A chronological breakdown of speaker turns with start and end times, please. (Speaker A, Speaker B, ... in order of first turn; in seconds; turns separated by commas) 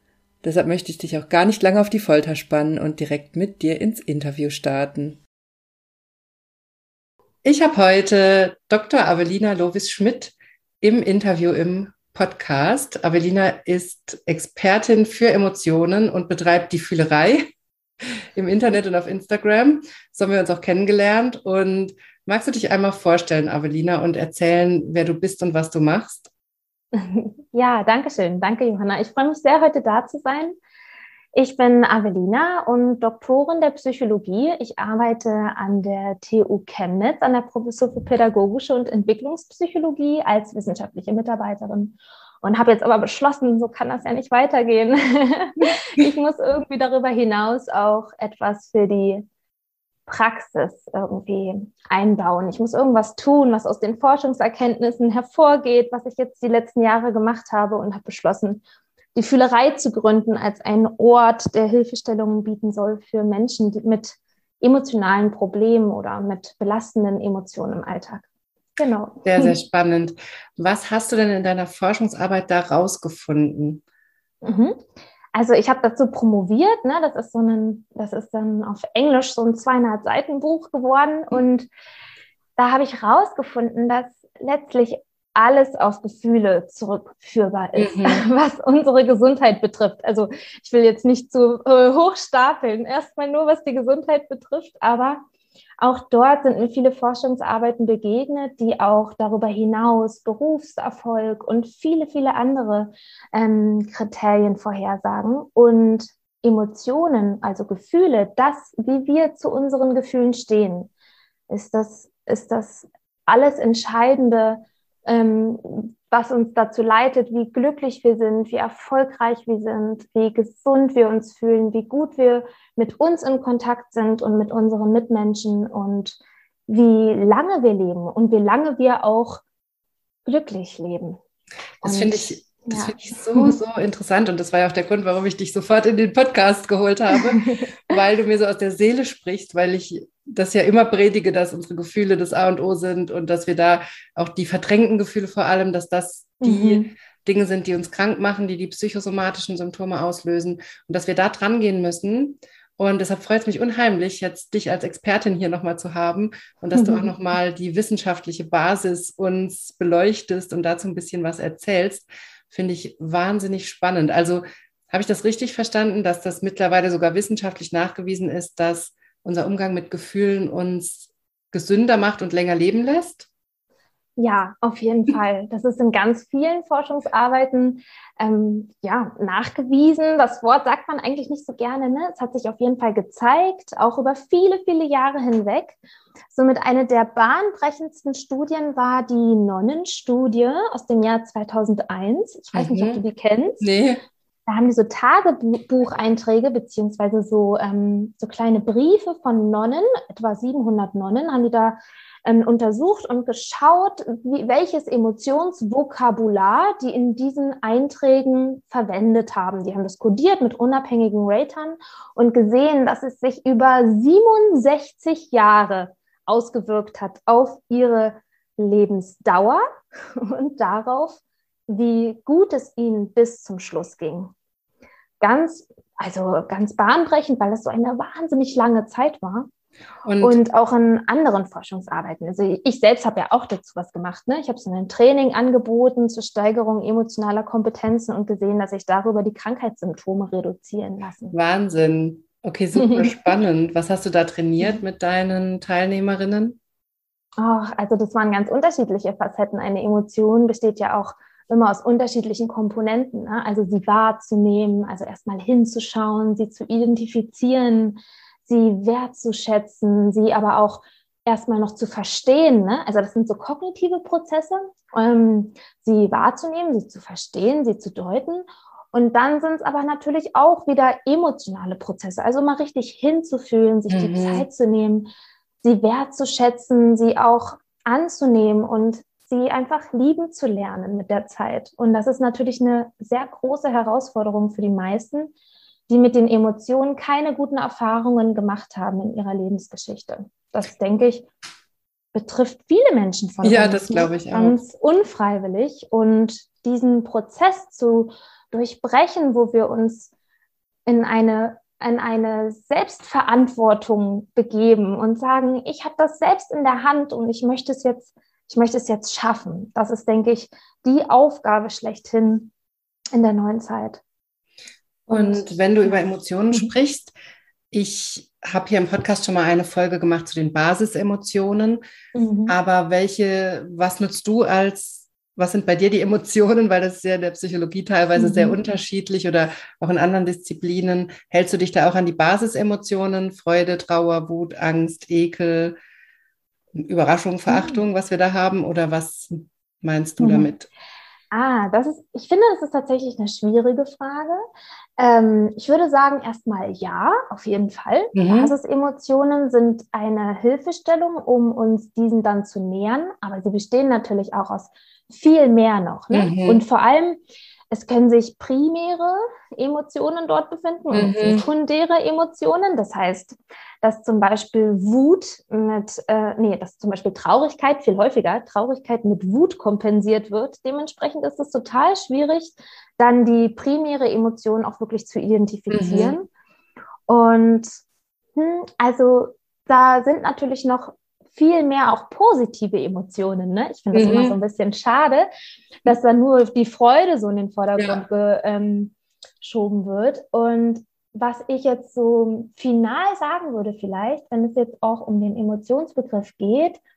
Speaker A: 0.4-5.2, Speaker A: 7.4-17.4, Speaker A: 18.4-26.3, Speaker B: 26.9-30.6, Speaker B: 31.3-49.2, Speaker B: 50.1-58.6, Speaker B: 59.1-68.2, Speaker B: 68.8-69.5, Speaker A: 69.2-73.8, Speaker B: 74.4-74.8, Speaker B: 75.3-81.7, Speaker B: 82.6-95.2, Speaker A: 87.7-88.2, Speaker B: 95.8-110.9, Speaker B: 111.5-129.4, Speaker B: 130.2-131.2, Speaker B: 131.8-133.5, Speaker A: 131.8-173.3, Speaker B: 137.1-137.7, Speaker B: 146.4-146.9, Speaker B: 156.7-157.1, Speaker B: 174.2-185.8, Speaker B: 186.3-193.6, Speaker A: 192.5-193.0, Speaker A: 193.6-194.0, Speaker B: 194.5-224.3, Speaker B: 225.2-229.5, Speaker A: 230.0-230.4, Speaker B: 230.2-241.3, Speaker A: 241.3-246.6, Speaker B: 242.8-243.3, Speaker B: 247.4-275.1, Speaker A: 273.9-274.5, Speaker B: 275.6-285.3, Speaker B: 285.9-291.3, Speaker B: 292.1-300.1, Speaker A: 293.4-294.6, Speaker B: 300.9-312.5, Speaker B: 313.1-314.0, Speaker B: 315.1-316.0, Speaker A: 315.1-317.1, Speaker A: 317.7-321.8, Speaker B: 322.1-322.5, Speaker A: 322.5-335.8, Speaker B: 328.1-328.6, Speaker A: 336.8-340.7, Speaker B: 337.5-337.8, Speaker B: 340.2-340.5, Speaker B: 341.3-344.4, Speaker B: 345.0-376.3, Speaker A: 348.1-348.5, Speaker A: 356.1-356.6, Speaker A: 360.9-361.4, Speaker A: 375.7-376.1, Speaker B: 377.1-377.8, Speaker B: 378.3-385.3, Speaker A: 383.9-384.4, Speaker B: 385.8-396.8